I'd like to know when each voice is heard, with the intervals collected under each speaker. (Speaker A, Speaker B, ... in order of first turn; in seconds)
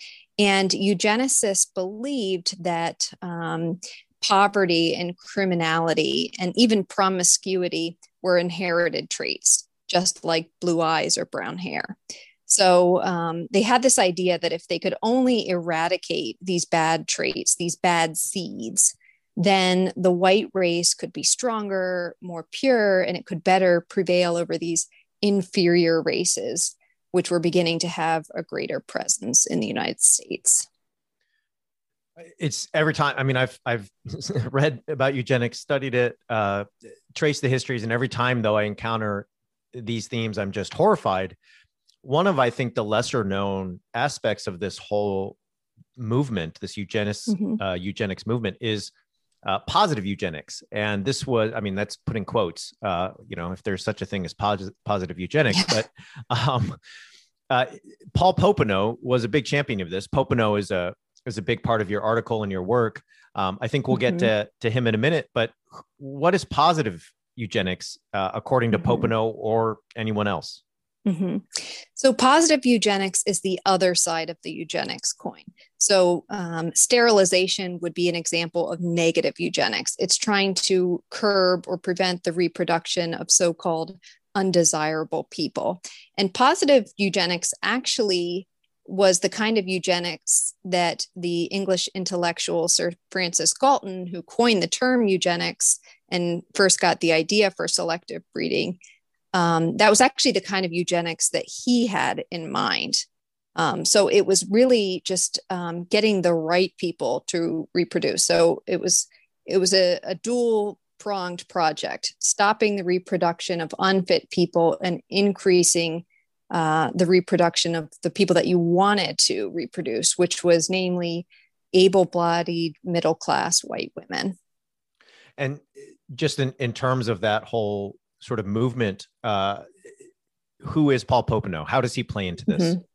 Speaker A: 0.4-12.0, 12.5-30.7, 47.3-47.6, 55.5-55.8, 63.9-64.3, 68.7-69.1, 71.1-98.8, 99.3-103.0, 103.5-124.3, 132.5-132.8
Speaker B: 32.4-41.4, 42.0-45.4, 46.0-48.9, 49.5-56.8, 57.5-70.6, 125.4-129.7, 130.6-132.8